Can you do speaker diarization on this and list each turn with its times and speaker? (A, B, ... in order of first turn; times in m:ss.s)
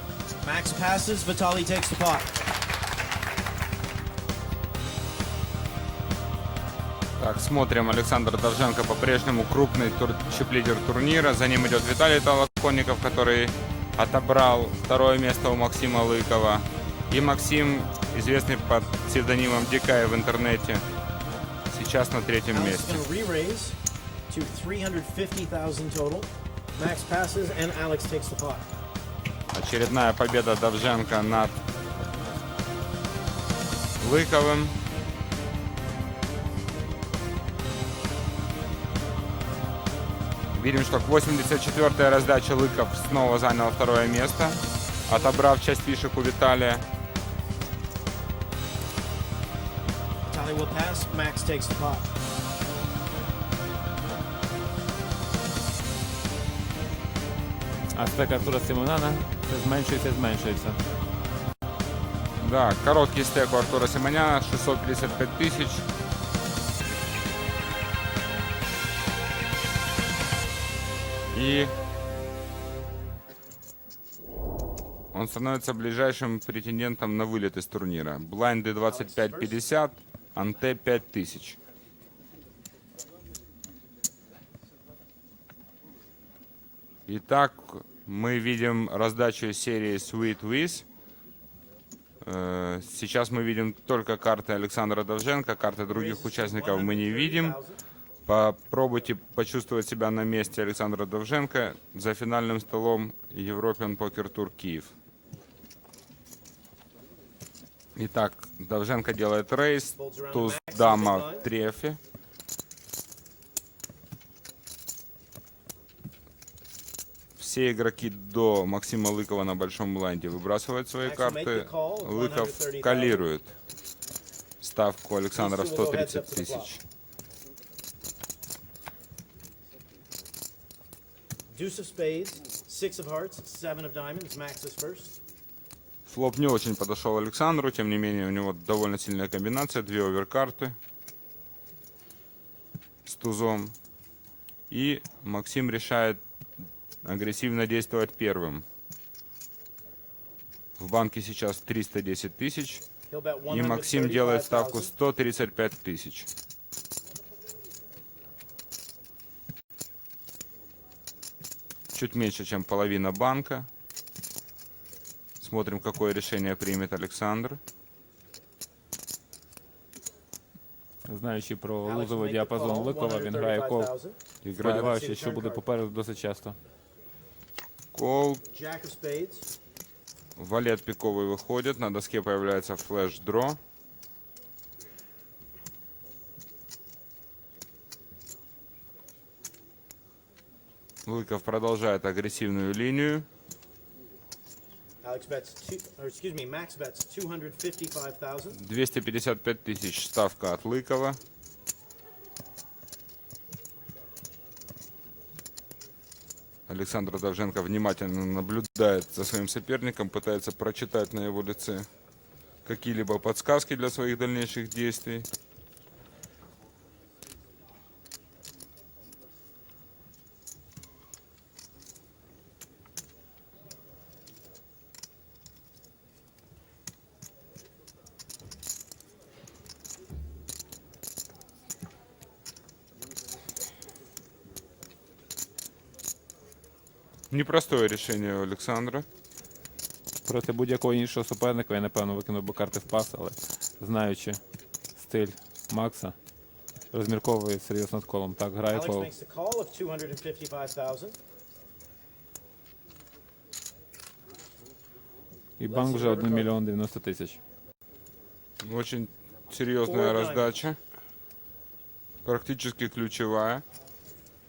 0:00.4-0:02.4 A
0:07.2-0:20.8 B
0:21.7-0:23.0 B
0:22.5-0:23.8 A
0:24.3-0:28.7 A
0:29.5-0:31.6 B
0:34.0-0:34.8 B
0:40.5-0:46.8 B
0:50.2-0:52.1 A
0:57.9-1:00.8 C
1:02.4-1:05.9 B
1:11.3-1:11.7 B
1:15.1-1:21.6 B
1:18.9-1:19.6 A
1:27.1-1:30.8 B
1:32.2-1:37.6 B
1:35.9-1:37.8 A
1:38.2-1:44.9 B
1:48.0-1:52.0 B
1:50.0-1:51.5 A
1:57.4-2:03.5 B
2:01.0-2:03.3 A
2:04.6-2:06.8 B
2:05.3-2:06.7 A
2:11.5-2:15.2 A
2:16.0-2:20.8 B
2:23.0-2:23.7 B
2:24.7-2:26.2 B
2:27.0-2:28.6 B
2:30.8-2:32.8 B
2:33.1-2:34.9 A
2:33.5-2:36.3 B
2:41.9-2:43.7 B
2:45.4-2:47.6 B
2:51.0-2:53.9 C
2:51.8-2:55.6 A
2:54.4-2:54.9 B
2:54.6-2:56.6 C
2:57.9-2:58.4 B
2:58.5-2:59.5 A
3:00.4-3:03.6 B
3:11.0-3:13.3 B
3:15.0-3:18.6 A
3:18.5-3:21.2 B
3:26.7-3:31.9 B
3:32.6-3:35.3 B
3:57.3-3:59.0 B
4:00.2-4:04.4 C
4:05.0-4:06.1 C
4:06.9-4:09.1 C
4:08.7-4:11.2 A
4:15.6-4:17.4 C
4:15.7-4:16.5 A
4:18.6-4:20.8 B
4:19.8-4:20.6 A
4:22.2-4:23.6 B